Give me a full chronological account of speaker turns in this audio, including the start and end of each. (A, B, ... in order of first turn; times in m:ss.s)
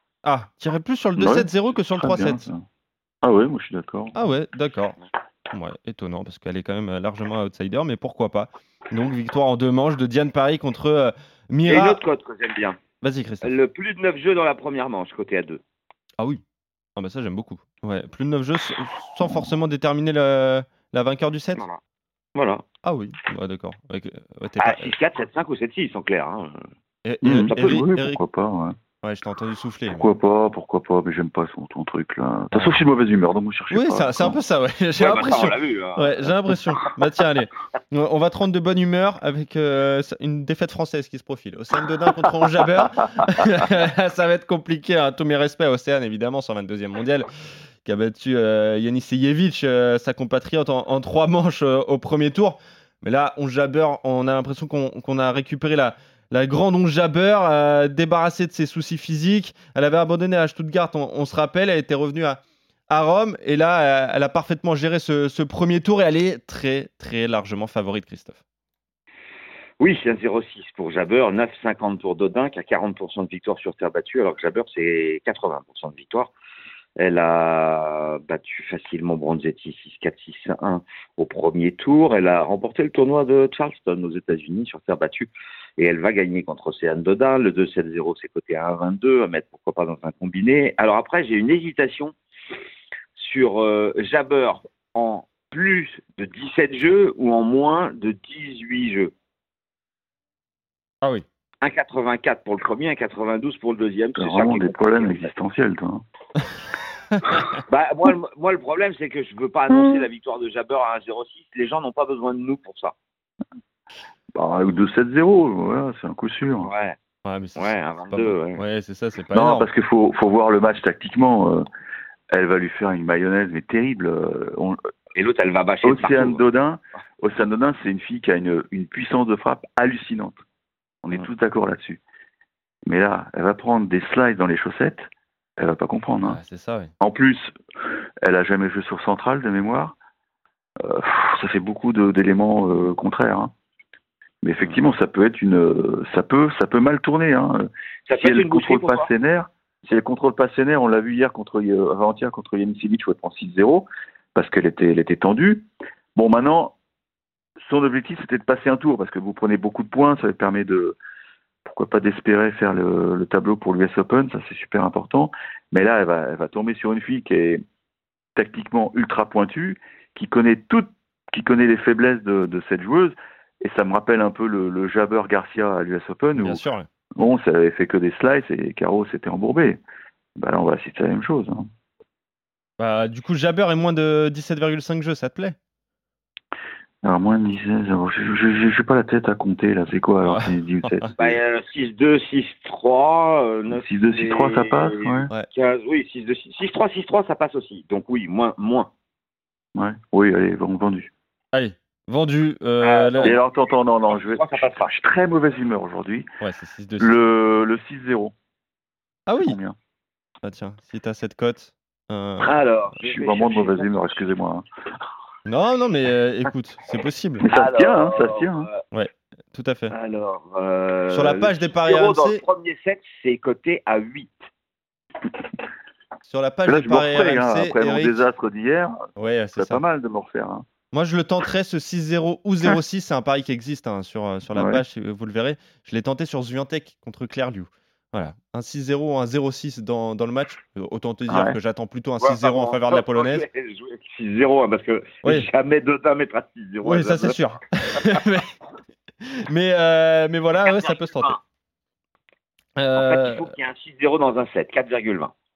0:00.2-0:02.4 A
0:01.2-0:02.6 B
0:03.2-0:04.2 B
0:04.2-0:05.0 A
0:05.5-0:12.0 A
0:11.7-0:12.8 C
0:13.0-0:13.6 A
0:13.4-0:15.6 C
0:17.0-0:21.6 A
0:22.4-0:22.6 C
0:22.8-0:25.0 A
0:24.6-0:26.7 C
0:27.0-0:28.2 A
0:27.2-0:28.8 B
0:29.0-0:30.1 A
0:29.9-0:34.4 B
0:32.5-0:32.8 A
0:33.7-0:47.3 A
0:35.0-0:36.8 C
0:47.8-1:08.4 A
1:09.8-1:16.3 C
1:17.0-1:32.2 C
1:33.2-1:39.1 C
1:41.6-1:45.3 C
1:44.2-1:46.0 B
1:47.7-1:52.9 C
1:54.3-1:56.7 B
1:56.6-1:57.0 C
1:57.2-1:59.7 A
1:57.6-1:58.6 C
1:59.3-2:01.7 B
2:02.3-2:04.8 B
2:05.2-2:06.4 C
2:05.8-2:10.4 B
2:11.0-2:12.0 B
2:12.9-2:16.4 B
2:16.2-2:16.9 A
2:17.0-2:17.5 B
2:18.2-2:19.9 B
2:20.8-2:23.5 B
2:24.4-2:27.7 B
2:28.1-2:29.1 C
2:28.2-2:36.7 B
2:37.7-2:41.0 B
2:41.6-2:47.6 B
2:48.4-2:56.6 B
2:56.4-2:56.9 A
2:57.2-2:59.8 B
3:00.4-3:01.7 B
3:02.8-3:05.6 A
3:07.0-3:11.4 B
3:10.2-3:11.1 A
3:11.2-3:18.9 C
3:13.7-3:15.3 B
3:19.8-3:21.1 B
3:21.5-3:23.4 A
3:22.8-3:23.4 C
3:23.2-3:26.3 B
3:24.1-3:24.9 C
3:26.4-3:27.1 A
3:27.0-3:28.3 B
3:29.3-3:29.6 A
3:29.4-3:29.8 B
3:30.4-3:32.5 A
3:32.4-3:34.3 C
3:33.0-3:34.6 B
3:35.5-3:37.4 A
3:37.4-3:38.7 B
3:37.4-3:38.8 C
3:38.9-3:39.9 A
3:39.9-3:44.5 C
3:41.1-3:42.4 A
3:46.2-3:48.2 A
3:46.7-3:49.0 B
3:49.2-3:49.8 A
3:49.6-3:50.6 B
3:50.9-4:03.5 A
3:54.5-3:54.8 B
4:01.3-4:01.6 B
4:02.2-4:07.4 C
4:06.8-4:08.5 A
4:09.2-4:11.4 A
4:10.6-4:11.4 C
4:12.8-4:13.5 A
4:13.0-4:15.3 C